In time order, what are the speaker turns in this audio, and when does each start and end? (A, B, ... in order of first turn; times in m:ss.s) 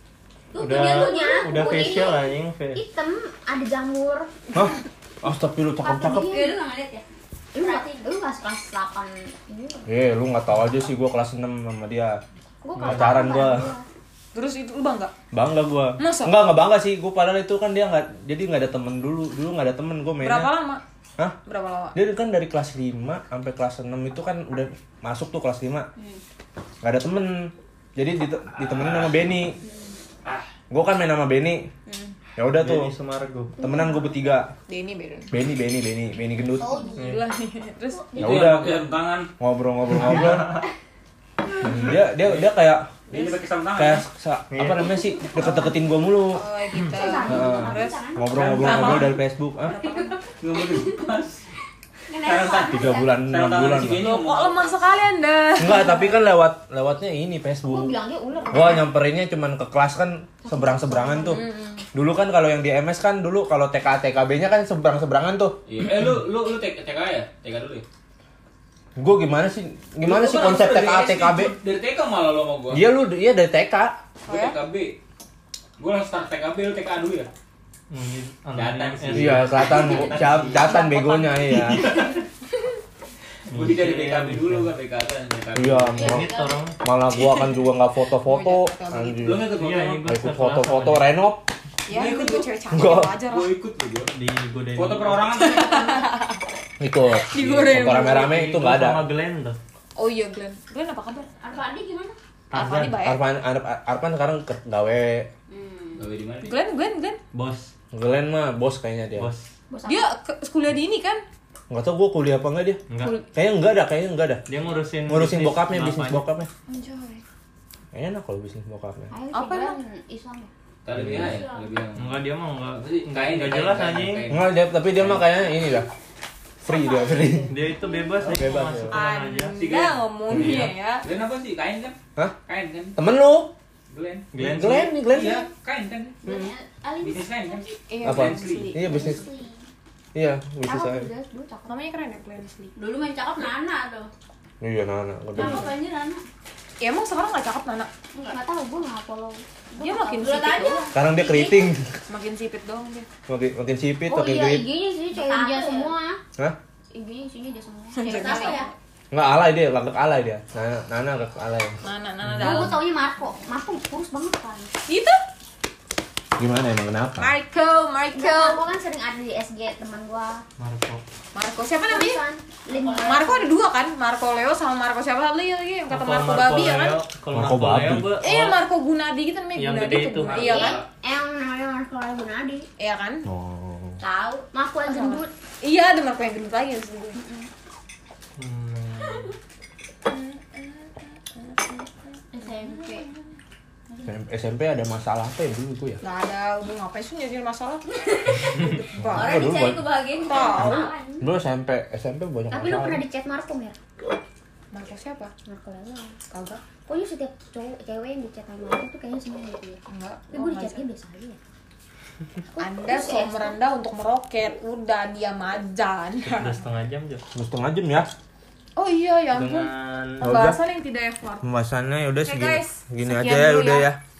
0:00.5-0:01.6 A
0:00.6-0:02.8 B
0:00.9-0:04.4 C
0:04.5-0:06.4 D
0:05.8-0:06.6 C
0:06.2-0:08.1 A
0:07.5-0:09.9 C
0:09.9-0:12.2 D
0:12.6-0:13.8 C
0:12.8-0:13.2 B
0:12.8-0:13.7 D
0:14.3-0:15.1 E
0:15.3-0:20.5 D
0:16.0-0:16.3 E
0:20.2-0:20.8 E
0:21.4-0:21.9 E
0:21.9-0:25.9 D
0:26.8-0:29.6 D
0:28.6-0:29.2 F
0:30.7-0:31.7 D
0:31.9-0:32.1 E
0:32.4-0:32.9 D
0:32.5-0:33.6 B
0:33.6-0:34.5 D
0:33.6-0:34.1 C
0:34.7-0:35.3 E
0:35.3-0:36.9 D
0:36.6-0:37.0 C
0:36.9-0:38.0 E
0:37.0-0:37.2 B
0:37.9-0:38.2 C
0:38.1-0:39.3 F
0:38.2-0:38.7 D
0:39.4-0:40.6 D
0:39.9-0:40.6 B
0:40.0-0:40.3 F
0:41.6-0:43.0 D
0:42.0-0:42.5 F
0:43.1-0:44.0 F
0:43.8-0:46.4 D
0:44.5-0:45.0 B
0:46.3-0:48.0 E
0:46.9-0:48.2 C
0:47.0-0:48.2 A
0:47.3-0:49.7 D
0:48.3-0:49.2 F
0:48.6-0:50.2 E
0:49.8-0:51.1 A
0:50.4-0:51.4 F
0:52.1-0:53.2 A
0:52.2-0:54.8 F
0:52.7-0:54.1 D
0:54.0-0:56.2 E
0:55.6-0:57.9 D
0:57.6-0:58.9 C
0:58.5-1:01.4 D
1:00.4-1:01.4 C
1:01.3-1:01.8 E
1:01.9-1:05.6 D
1:05.6-1:07.8 F
1:09.0-1:11.5 D
1:10.0-1:12.8 F
1:12.7-1:14.0 D
1:14.2-1:14.6 E
1:14.3-1:15.0 F
1:15.8-1:17.3 F
1:17.9-1:20.7 B
1:18.5-1:20.8 F
1:19.1-1:22.0 D
1:21.4-1:22.2 F
1:23.5-1:24.7 B
1:23.5-1:26.2 F
1:25.5-1:31.5 D
1:26.0-1:26.5 A
1:26.0-1:26.8 B
1:28.2-1:29.3 E
1:29.2-1:30.1 F
1:29.4-1:31.1 B
1:31.8-1:33.5 E
1:31.9-1:32.5 F
1:32.7-1:33.1 D
1:33.3-1:34.1 F
1:34.1-1:35.4 B
1:34.7-1:36.1 F
1:35.4-1:36.4 E
1:36.8-1:39.1 D
1:37.2-1:38.4 E
1:37.9-1:39.6 B
1:40.0-1:41.3 E
1:41.4-1:42.2 A
1:42.5-1:43.0 B
1:42.5-1:43.2 E
1:43.0-1:45.3 D
1:45.5-1:46.0 A
1:46.0-1:46.5 F
1:46.4-1:47.2 E
1:47.3-1:47.7 B
1:47.9-1:49.3 D
1:49.2-1:49.4 B
1:49.7-1:50.0 C
1:49.8-1:51.2 E
1:51.7-1:52.8 D
1:52.9-1:53.2 B
1:53.3-1:54.4 D
1:54.5-1:56.2 B
1:55.1-1:56.5 D
1:56.7-1:57.2 E
1:57.9-1:59.1 D
1:59.1-2:00.5 C
1:59.3-1:59.8 E
2:00.8-2:02.2 F
2:00.9-2:01.4 D
2:01.3-2:01.7 A
2:01.9-2:04.3 B
2:02.8-2:04.4 F
2:04.3-2:05.9 D
2:06.6-2:07.5 D
2:06.6-2:08.3 C
2:07.5-2:09.6 B
2:08.4-2:08.9 D
2:08.9-2:11.0 E
2:09.6-2:13.0 F
2:10.3-2:10.6 D
2:13.0-2:13.5 D
2:13.9-2:16.2 F
2:14.3-2:15.0 B
2:14.4-2:15.5 D
2:16.2-2:17.5 A
2:16.2-2:16.5 C
2:17.0-2:18.7 F
2:17.9-2:19.1 E
2:18.0-2:19.2 D
2:18.8-2:19.5 C
2:19.1-2:19.5 A
2:20.1-2:21.1 D
2:20.6-2:21.7 C
2:21.7-2:22.7 E
2:22.8-2:24.1 A
2:24.6-2:25.7 D
2:25.3-2:26.2 A
2:26.8-2:27.9 E
2:28.2-2:30.3 C
2:29.8-2:30.9 E
2:30.1-2:31.7 A
2:30.9-2:32.0 D
2:32.1-2:33.1 E
2:33.3-2:34.6 D
2:34.1-2:36.2 C
2:35.1-2:36.0 A
2:36.9-2:38.7 C
2:37.9-2:38.7 E
2:38.0-2:38.7 A
2:39.1-2:41.8 D
2:41.8-2:42.8 E
2:42.3-2:44.7 C
2:44.9-2:45.2 E
2:46.4-2:47.3 D
2:47.2-2:48.6 E
2:48.1-2:50.4 C
2:50.6-2:51.0 B
2:51.3-2:52.2 E
2:51.7-2:53.4 C
2:52.6-2:53.3 A
2:53.0-2:57.0 E
2:55.9-2:58.6 B
2:57.3-2:58.2 D
2:58.2-3:00.8 E
2:59.5-3:00.4 B
3:00.2-3:00.9 F
3:00.3-3:02.7 C
3:02.8-3:03.2 E
3:03.2-3:04.0 D
3:04.0-3:04.5 A
3:04.5-3:05.3 C
3:04.8-3:07.2 E
3:07.2-3:07.5 C
3:08.4-3:09.3 B
3:09.0-3:09.3 A
3:10.1-3:11.9 E
3:12.3-3:13.1 A
3:12.5-3:13.1 E
3:14.0-3:16.0 D
3:16.0-3:19.4 E
3:17.9-3:21.2 A
3:19.0-3:19.9 D
3:20.2-3:20.9 E
3:21.2-3:23.0 D
3:22.5-3:23.8 C
3:24.7-3:25.3 E
3:25.4-3:26.2 C
3:26.3-3:26.6 E
3:26.9-3:29.8 C
3:29.9-3:30.8 E
3:30.3-3:31.4 C
3:32.5-3:33.6 C
3:32.6-3:36.6 E
3:36.2-3:37.2 B
3:37.3-3:38.1 D
3:38.8-3:41.4 E
3:39.3-3:40.3 B
3:40.2-3:40.6 D
3:41.4-3:44.0 D
3:42.2-3:43.8 E